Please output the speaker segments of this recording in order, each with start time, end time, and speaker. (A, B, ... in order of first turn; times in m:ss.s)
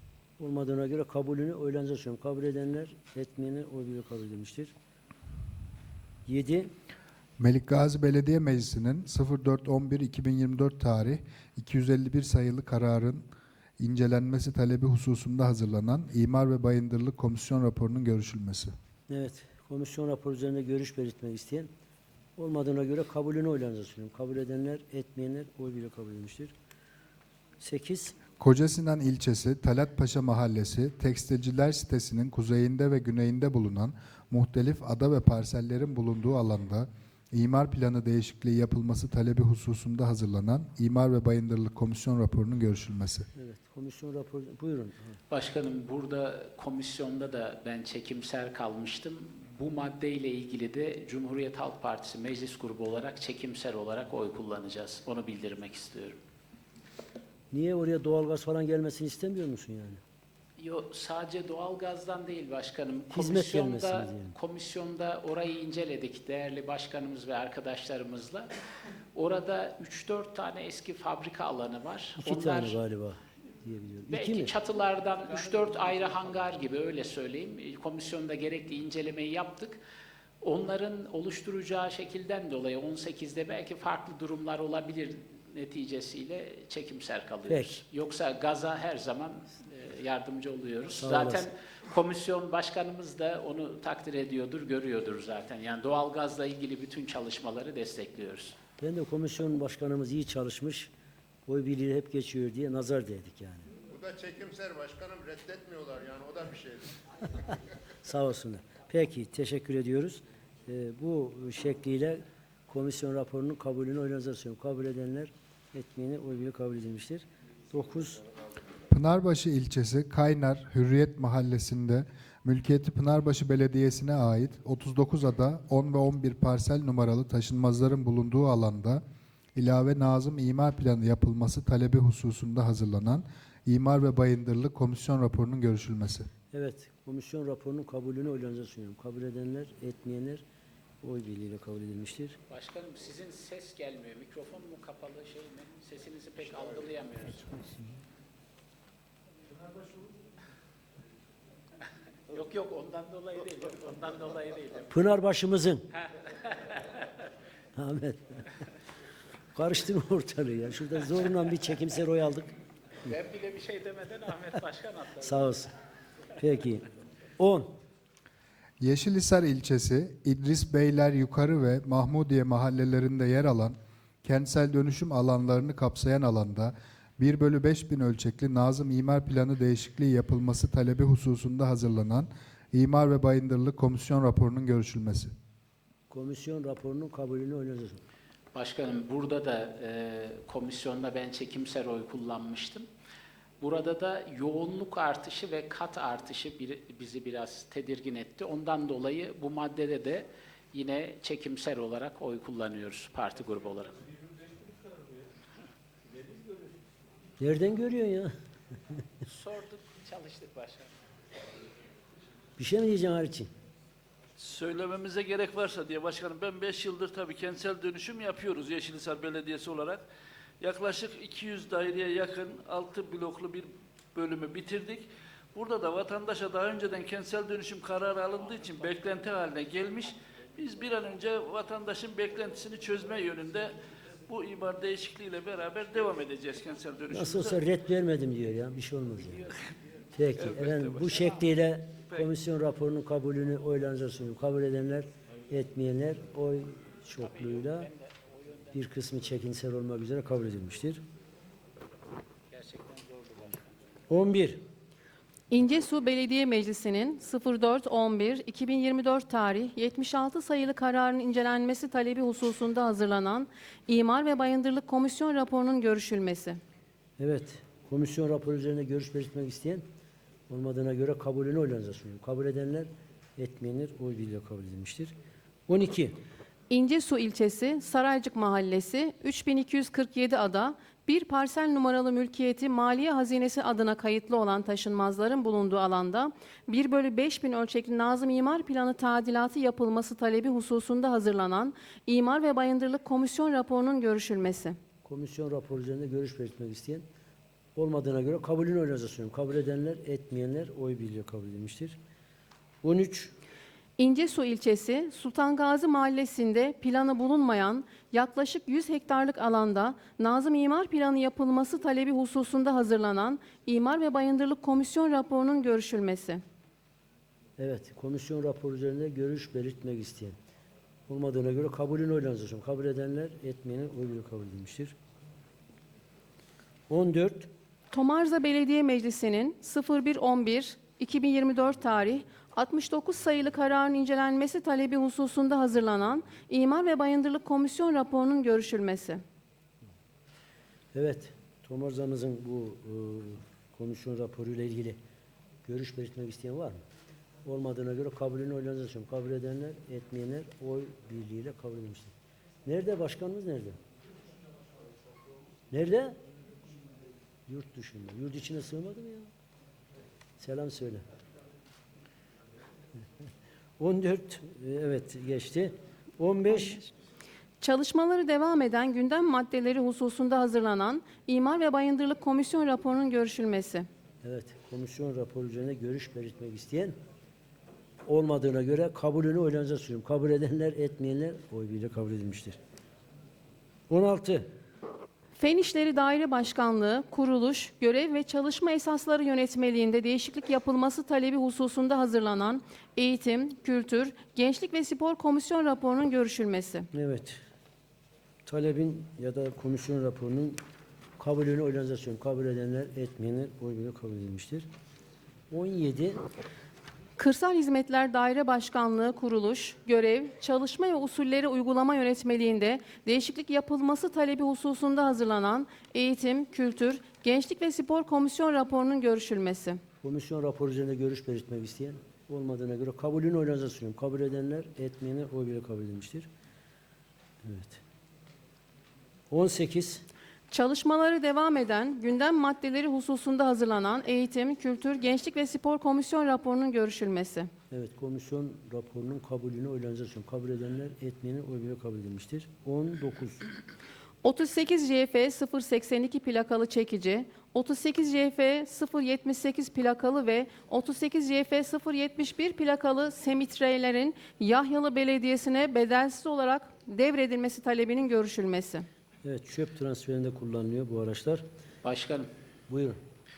0:00.4-0:04.7 A
0:06.3-0:06.7 A
0:07.4-0:13.3 B
0:13.8-0:18.7 B
0:19.1-0:21.7 A
0:22.4-0:26.5 A
0:27.6-0:28.2 A
0:28.4-0:43.3 B
0:43.4-0:45.2 A
0:45.3-0:56.2 C
0:57.5-1:00.0 A
1:00.6-1:08.5 C
1:03.1-1:04.4 A
1:09.2-1:12.8 C
1:12.2-1:14.5 A
1:14.1-1:19.8 C
1:20.4-1:38.6 C
1:27.5-1:27.8 A
1:31.0-1:31.4 A
1:38.8-1:40.9 A
1:41.5-1:43.7 A
1:43.9-1:47.0 D
1:48.0-1:58.2 A
1:58.9-2:09.0 B
2:09.6-2:16.3 B
2:16.5-2:20.4 A
2:21.0-2:22.4 A
2:22.5-2:27.6 C
2:32.3-2:34.9 C
2:34.9-2:35.8 A
2:36.6-2:36.9 C
2:37.8-2:38.5 A
2:39.6-2:42.5 A
2:43.1-2:45.5 C
2:45.2-2:45.7 A
2:46.4-2:46.8 A
2:47.4-2:47.8 A
2:48.8-3:05.3 B
3:06.1-3:08.0 A
3:08.6-3:12.9 C
3:13.6-3:24.0 C
3:27.4-3:28.3 A
3:29.3-3:30.9 C
3:32.6-3:33.5 A
3:34.4-3:40.0 E
3:40.6-3:53.7 E
3:54.3-3:57.6 E
3:57.1-3:59.4 A
4:00.2-4:07.9 A
4:00.4-4:01.3 E
4:07.2-4:08.0 C
4:08.7-4:11.0 A
4:12.5-4:13.6 C
4:14.1-4:14.6 A
4:15.5-4:26.6 F
4:27.2-4:29.8 A
4:30.5-4:35.1 A
4:35.7-4:36.2 A
4:36.7-4:54.8 F
4:55.0-4:57.0 A
4:57.8-5:02.0 A
5:02.8-5:03.3 A
5:04.0-5:16.4 F
5:17.6-5:20.4 A
5:21.1-5:25.0 A
5:26.9-5:27.5 A
5:27.9-5:39.2 F
5:40.9-5:45.0 A
5:45.7-5:46.8 A
5:47.4-5:52.1 A
5:52.7-5:53.8 A
5:55.7-5:56.2 A
5:57.5-5:59.3 A
6:00.4-6:01.0 A
6:03.8-6:06.8 A
6:07.6-6:13.9 F
6:14.2-6:17.0 A
6:18.1-6:22.6 A
6:23.9-6:24.5 A
6:25.4-6:36.9 F
6:36.9-6:37.4 A
6:38.5-6:40.6 A
6:41.2-6:44.7 A
6:45.5-6:46.2 A
6:47.2-6:59.8 F
7:00.0-7:06.3 A
7:07.4-7:07.8 A
7:09.3-7:10.0 A
7:10.5-7:17.5 F
7:17.7-7:23.4 A
7:24.2-7:38.9 F
7:39.2-7:41.4 A
7:41.8-7:42.3 C
7:42.7-7:43.0 A